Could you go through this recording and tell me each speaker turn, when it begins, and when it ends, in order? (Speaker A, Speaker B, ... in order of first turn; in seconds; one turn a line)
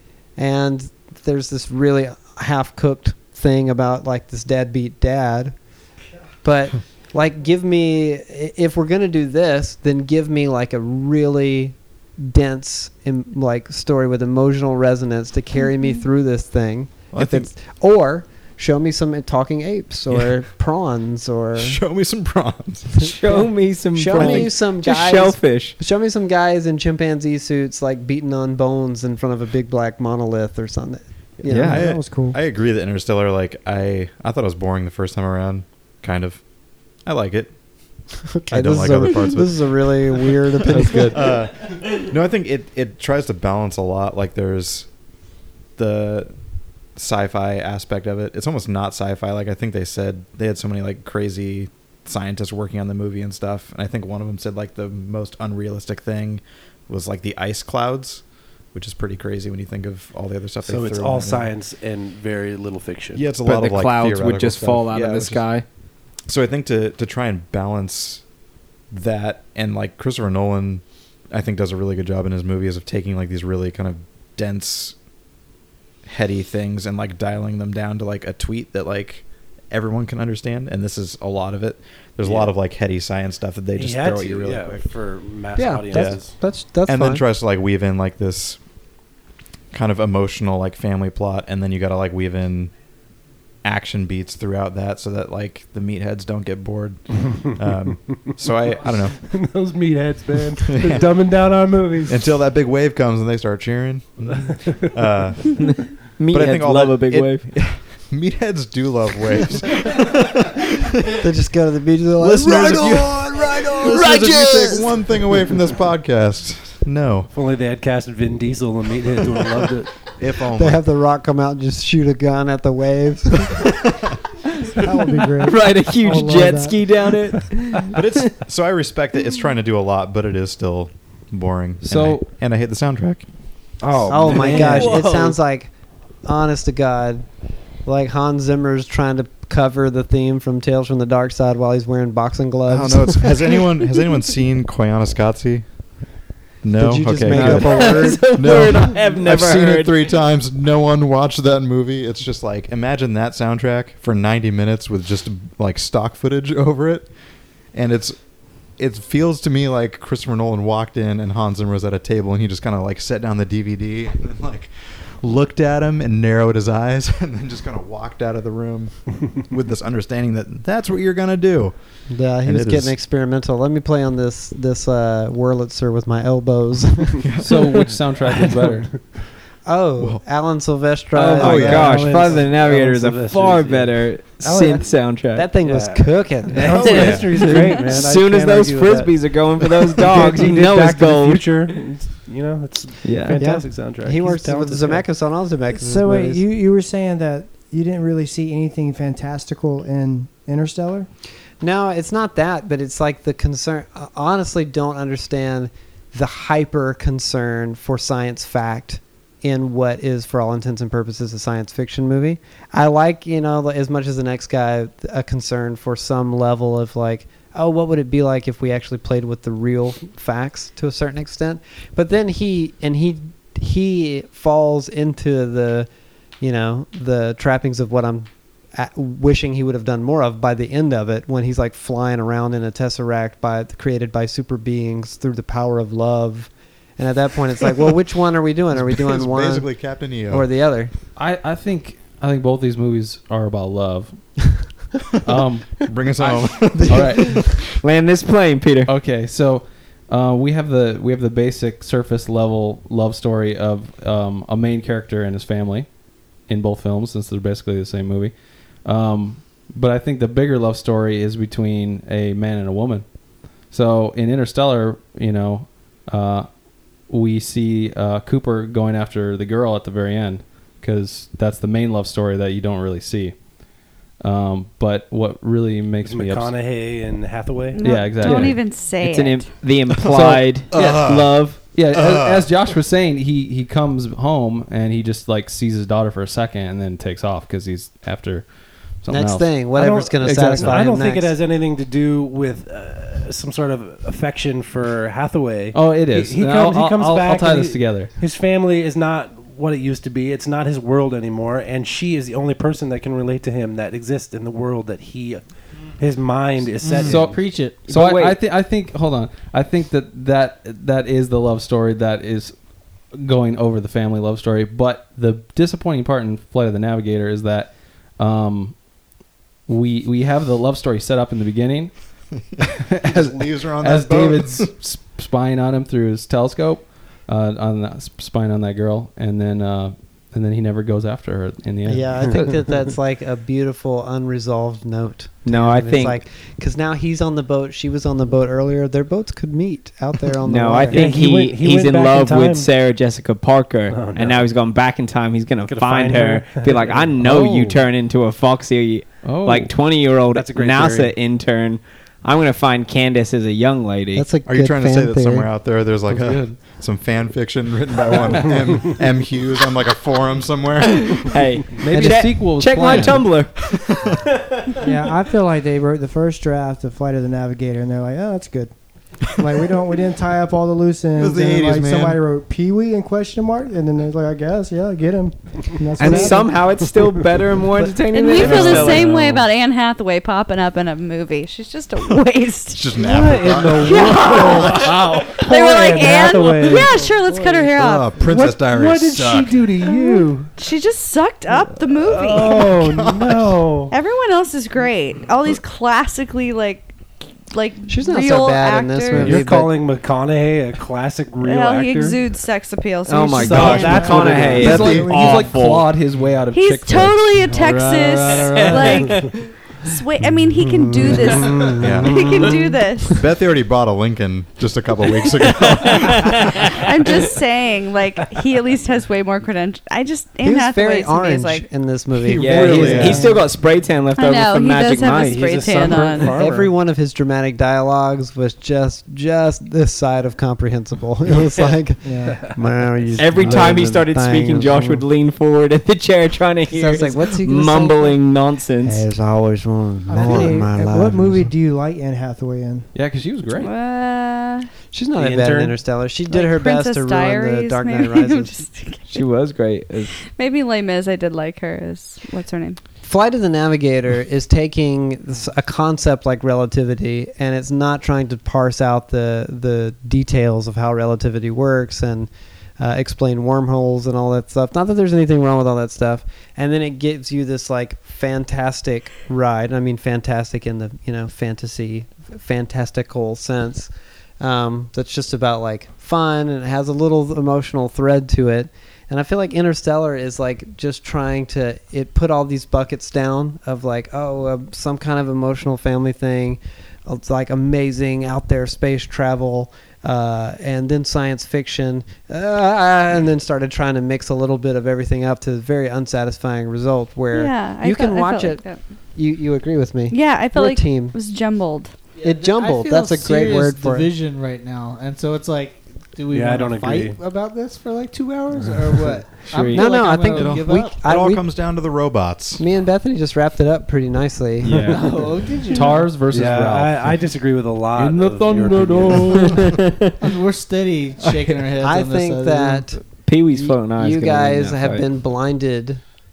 Speaker A: 0.4-5.5
Speaker A: 6.4-21.8
Speaker B: 15.6-16.0
Speaker C: 17.1-17.5
Speaker C: 21.6-23.1
Speaker D: 23.0-25.8
Speaker A: 23.3-31.8
Speaker D: 31.5-31.8
Speaker C: 31.5-36.4
Speaker E: 31.5-32.4
Speaker C: 37.0-37.5
Speaker A: 38.3-41.4
Speaker C: 38.5-44.9
Speaker C: 45.8-46.3
Speaker C: 47.0-58.2
Speaker C: 58.7-61.5
Speaker F: 60.6-63.3
Speaker C: 63.1-65.5
Speaker D: 63.4-65.6
Speaker C: 66.3-68.2
Speaker C: 68.9-74.9
Speaker C: 76.0-84.8
Speaker F: 82.2-82.5
Speaker F: 83.7-86.4
Speaker A: 85.5-87.2
Speaker C: 85.9-86.2
Speaker C: 86.9-88.6
Speaker C: 89.7-92.7
Speaker C: 93.6-99.3
Speaker F: 97.2-98.4
Speaker F: 99.2-102.3
Speaker C: 100.7-101.4
Speaker C: 102.1-111.2
Speaker F: 104.3-104.9
Speaker D: 105.6-107.5
Speaker A: 111.2-114.8
Speaker C: 112.2-117.3
Speaker D: 113.9-114.8
Speaker F: 117.3-119.9
Speaker C: 120.2-120.8
Speaker A: 120.5-123.8
Speaker E: 124.8-127.3
Speaker D: 125.4-128.4
Speaker C: 127.9-133.2
Speaker G: 131.8-132.2
Speaker F: 133.8-135.3
Speaker A: 134.1-135.7
Speaker G: 134.3-134.9
Speaker A: 136.2-137.3
Speaker A: 137.8-143.5
Speaker C: 142.7-145.7
Speaker C: 146.6-157.1
Speaker A: 146.8-148.7
Speaker D: 147.3-150.1
Speaker C: 157.7-158.2
Speaker C: 158.8-172.9
Speaker A: 172.1-177.2
Speaker C: 177.2-177.8
Speaker G: 177.4-178.9
Speaker F: 178.3-179.0
Speaker A: 179.6-182.3
Speaker D: 181.1-185.5
Speaker C: 181.4-182.3
Speaker F: 181.7-184.9
Speaker A: 185.3-187.0
Speaker F: 185.6-195.1
Speaker D: 186.6-191.8
Speaker C: 186.7-187.7
Speaker D: 193.0-193.6
Speaker A: 193.4-196.4
Speaker E: 195.7-201.1
Speaker A: 201.6-225.9
Speaker A: 226.4-240.9
Speaker C: 238.7-240.4
Speaker G: 241.2-244.7
Speaker G: 245.2-247.5
Speaker C: 245.8-247.7
Speaker D: 247.8-248.9
Speaker G: 248.8-266.5
Speaker G: 267.1-273.4
Speaker G: 274.2-276.5
Speaker F: 276.0-278.0
Speaker B: 277.7-279.4
Speaker G: 277.8-278.6
Speaker D: 278.2-281.7
Speaker G: 280.0-281.0
Speaker C: 280.0-282.5
Speaker G: 281.7-290.8
Speaker A: 289.1-291.3
Speaker F: 289.7-305.4
Speaker G: 295.7-298.1
Speaker F: 306.0-307.4
Speaker H: 306.8-307.9
Speaker G: 307.0-312.6
Speaker D: 307.8-308.4
Speaker G: 313.1-318.8
Speaker G: 319.7-321.9
Speaker G: 322.6-332.7
Speaker C: 322.6-324.7
Speaker A: 331.9-341.1
Speaker D: 335.4-336.2
Speaker D: 340.4-354.3
Speaker F: 340.9-342.7
Speaker F: 343.9-344.4
Speaker F: 345.7-347.2
Speaker G: 347.2-347.8
Speaker G: 349.2-349.7
Speaker F: 350.3-351.1
Speaker A: 354.1-355.5
Speaker C: 354.4-361.5
Speaker G: 356.1-356.6
Speaker F: 358.5-358.9
Speaker D: 361.0-363.7
Speaker G: 361.8-363.4
Speaker C: 363.5-364.2
Speaker E: 364.8-368.8
Speaker E: 369.4-376.8
Speaker C: 371.2-372.2
Speaker D: 376.0-379.1
Speaker B: 378.1-382.8
Speaker G: 378.4-379.1
Speaker C: 378.5-379.2
Speaker C: 382.7-384.3
Speaker F: 383.0-386.9
Speaker B: 383.8-388.1
Speaker C: 387.7-389.6
Speaker F: 388.2-390.5
Speaker B: 389.8-392.8
Speaker F: 392.0-393.9
Speaker C: 392.5-393.5
Speaker B: 393.9-397.0
Speaker B: 397.5-399.4
Speaker A: 397.9-399.7
Speaker C: 399.1-399.4
Speaker F: 399.1-402.2
Speaker B: 401.4-404.0
Speaker D: 403.1-405.8
Speaker F: 403.3-404.8
Speaker E: 403.5-405.6
Speaker A: 403.6-404.6
Speaker G: 404.6-407.2
Speaker C: 404.6-405.8
Speaker B: 406.5-413.2
Speaker H: 407.4-409.2
Speaker D: 408.5-409.5
Speaker C: 410.8-412.5
Speaker A: 411.0-412.7
Speaker C: 413.1-416.7
Speaker D: 415.9-416.4
Speaker B: 416.5-421.6
Speaker A: 420.4-423.4
Speaker C: 422.1-423.4
Speaker D: 422.4-425.5
Speaker B: 424.1-426.4
Speaker F: 425.1-426.7
Speaker A: 426.2-435.0
Speaker E: 432.0-432.4
Speaker F: 432.3-432.6
Speaker D: 433.1-439.1
Speaker A: 436.7-438.2
Speaker A: 438.8-441.5
Speaker E: 440.1-442.9
Speaker G: 442.9-443.7
Speaker B: 443.6-444.7
Speaker A: 444.9-448.6
Speaker F: 445.1-445.8
Speaker B: 446.3-449.2
Speaker D: 449.1-450.2
Speaker B: 450.2-452.8
Speaker A: 453.0-498.6
Speaker B: 497.3-498.8
Speaker A: 499.1-501.1
Speaker B: 500.1-501.9
Speaker H: 502.2-511.0
Speaker A: 502.2-504.1
Speaker F: 506.3-507.2
Speaker F: 508.6-508.9
Speaker D: 509.5-509.9
Speaker A: 509.7-511.4
Speaker C: 510.2-512.6
Speaker A: 512.6-515.3
Speaker F: 514.7-515.0
Speaker H: 514.8-516.2
Speaker F: 515.7-519.6
Speaker G: 515.7-517.2
Speaker G: 517.9-519.7
Speaker D: 519.4-520.2
Speaker H: 520.2-523.0
Speaker A: 521.8-526.0
Speaker D: 523.2-525.0